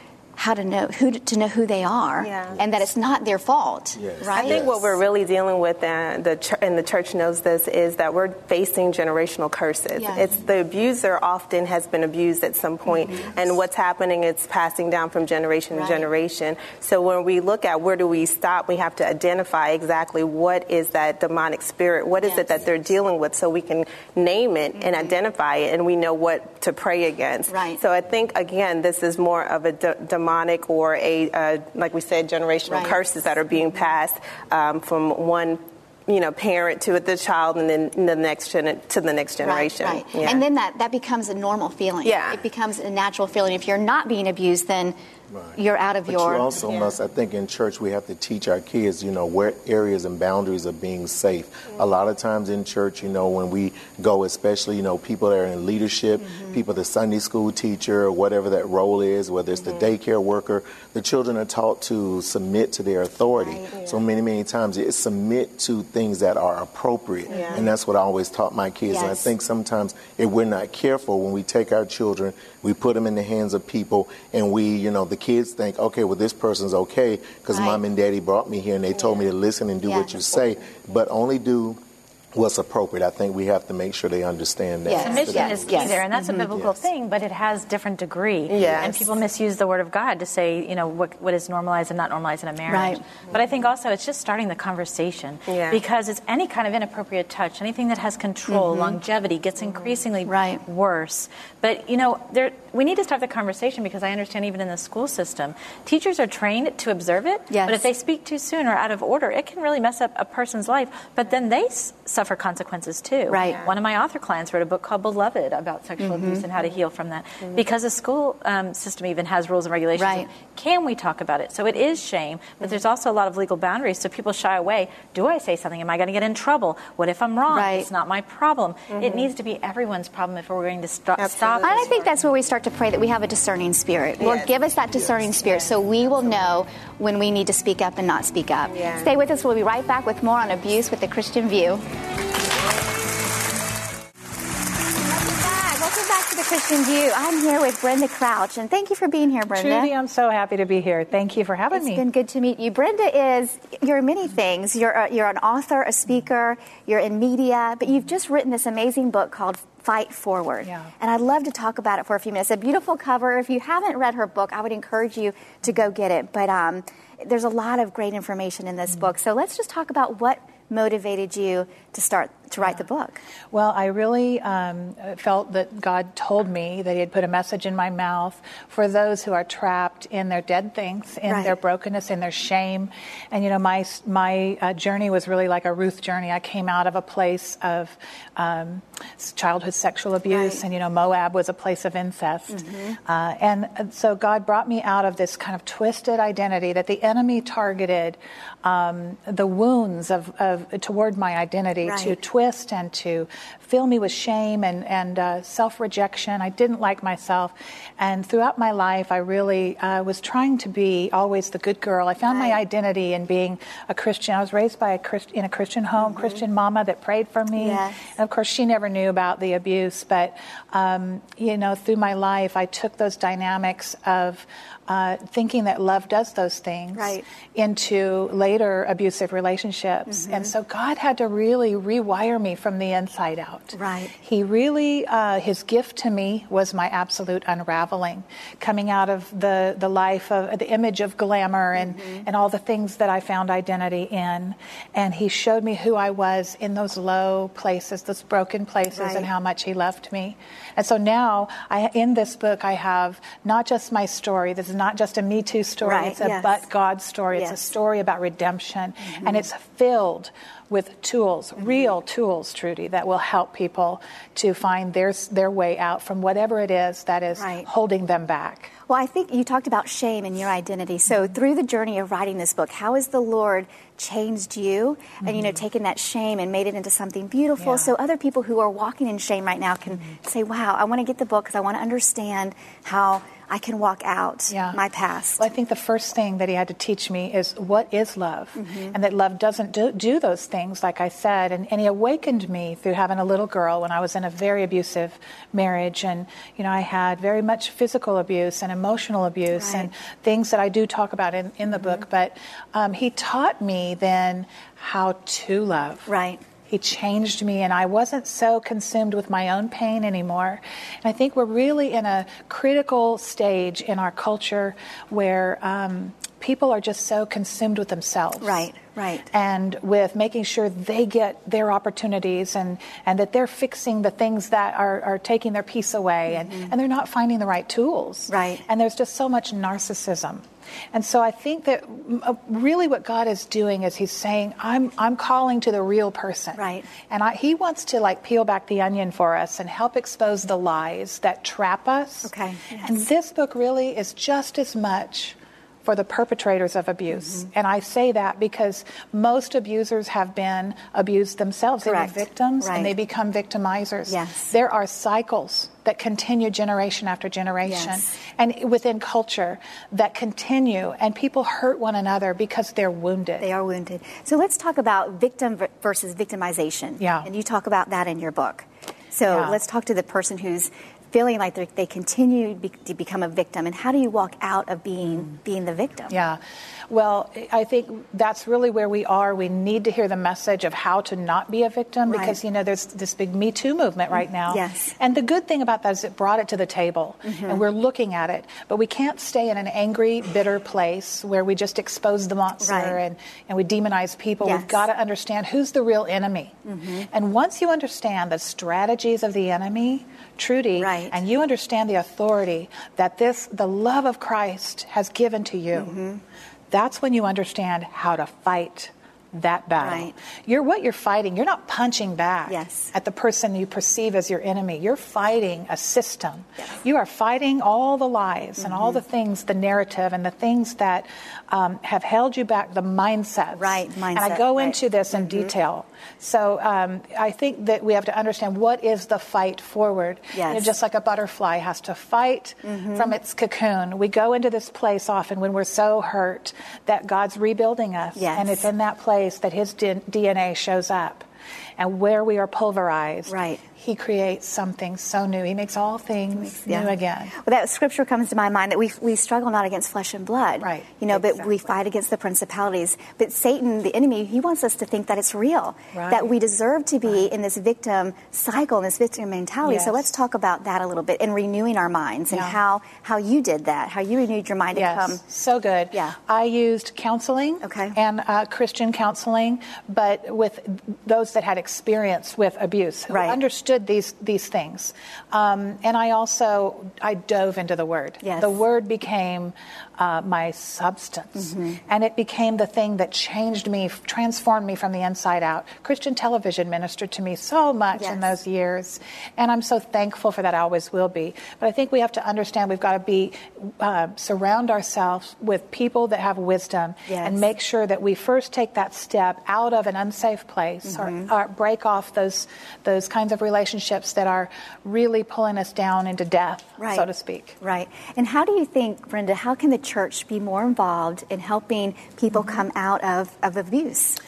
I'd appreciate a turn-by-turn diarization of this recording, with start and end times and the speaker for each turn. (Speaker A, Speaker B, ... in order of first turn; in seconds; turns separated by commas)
Speaker A: 0.3-4.7, Speaker B: 2.2-2.6, Speaker C: 4.0-4.9, Speaker B: 4.3-40.4, Speaker A: 9.9-10.2, Speaker A: 15.7-16.1, Speaker A: 24.8-25.1, Speaker A: 27.5-27.8, Speaker A: 32.7-33.0, Speaker A: 39.4-45.0, Speaker B: 42.0-42.4, Speaker C: 45.3-81.8, Speaker A: 45.5-46.6, Speaker B: 46.6-47.0, Speaker A: 56.2-56.6, Speaker B: 59.6-59.9, Speaker A: 63.4-63.7, Speaker B: 63.7-64.0, Speaker B: 67.3-67.7, Speaker A: 67.3-67.7, Speaker A: 68.9-69.3, Speaker A: 77.5-77.8, Speaker A: 79.8-80.2, Speaker C: 82.3-86.8, Speaker A: 84.8-86.5, Speaker D: 85.0-132.1, Speaker B: 88.5-89.1, Speaker C: 88.5-88.9, Speaker A: 92.7-93.0, Speaker B: 95.5-95.8, Speaker A: 98.5-99.0, Speaker A: 100.2-100.6, Speaker A: 107.5-107.8, Speaker A: 113.3-113.6, Speaker B: 113.4-113.7, Speaker A: 116.0-116.4, Speaker A: 120.0-120.3, Speaker A: 127.5-127.9, Speaker B: 128.9-129.3, Speaker B: 131.2-132.1, Speaker A: 131.6-141.8, Speaker B: 134.2-134.5, Speaker B: 138.7-139.1, Speaker A: 145.1-149.9, Speaker E: 149.5-152.0, Speaker A: 151.7-173.2, Speaker E: 160.6-160.9, Speaker E: 173.5-268.7, Speaker A: 181.3-181.6, Speaker A: 190.3-190.6, Speaker A: 192.5-193.0, Speaker A: 201.8-202.2, Speaker A: 212.2-212.6, Speaker A: 216.0-216.4, Speaker A: 217.5-218.1, Speaker A: 226.9-227.2, Speaker A: 230.1-230.5, Speaker A: 233.7-234.1, Speaker A: 241.7-242.3, Speaker A: 248.9-249.3, Speaker A: 255.8-256.6, Speaker A: 257.3-257.7, Speaker A: 259.1-259.4, Speaker A: 267.4-267.7, Speaker A: 268.9-285.5, Speaker E: 275.2-275.6, Speaker E: 277.6-277.9, Speaker E: 284.5-284.8, Speaker E: 285.4-306.1, Speaker A: 288.6-289.0, Speaker A: 299.5-299.9, Speaker A: 301.7-302.0, Speaker A: 306.1-306.4, Speaker E: 306.7-318.7, Speaker A: 318.4-319.3, Speaker E: 319.3-363.5, Speaker A: 326.3-326.7, Speaker A: 328.3-328.6, Speaker A: 336.6-336.9, Speaker A: 342.2-342.9, Speaker A: 347.1-347.5, Speaker A: 351.8-352.9, Speaker A: 354.1-354.5, Speaker A: 357.6-358.0, Speaker A: 363.4-376.1, Speaker E: 367.0-367.3, Speaker E: 369.3-369.6, Speaker E: 376.1-406.0, Speaker A: 382.1-382.4, Speaker A: 384.1-384.9, Speaker A: 387.2-387.6, Speaker A: 392.6-393.0, Speaker A: 394.4-394.8, Speaker A: 396.7-397.1, Speaker A: 400.8-401.2, Speaker A: 405.7-406.2, Speaker E: 406.7-441.2, Speaker A: 409.8-410.1, Speaker A: 412.5-412.9, Speaker A: 418.6-419.0, Speaker A: 423.5-425.5, Speaker A: 430.3-430.7, Speaker A: 432.6-433.1, Speaker A: 438.1-438.7, Speaker E: 441.8-447.3, Speaker A: 443.3-443.6, Speaker A: 446.4-465.2, Speaker E: 450.6-451.5, Speaker E: 455.9-456.3, Speaker E: 459.6-460.0, Speaker E: 462.3-462.6, Speaker E: 464.7-507.6, Speaker A: 467.6-467.9, Speaker A: 473.1-473.4, Speaker A: 478.2-478.6, Speaker A: 481.4-481.8, Speaker A: 487.9-488.3, Speaker A: 497.1-497.4, Speaker A: 500.9-501.3, Speaker A: 506.8-507.1, Speaker A: 507.6-514.2, Speaker E: 512.3-512.6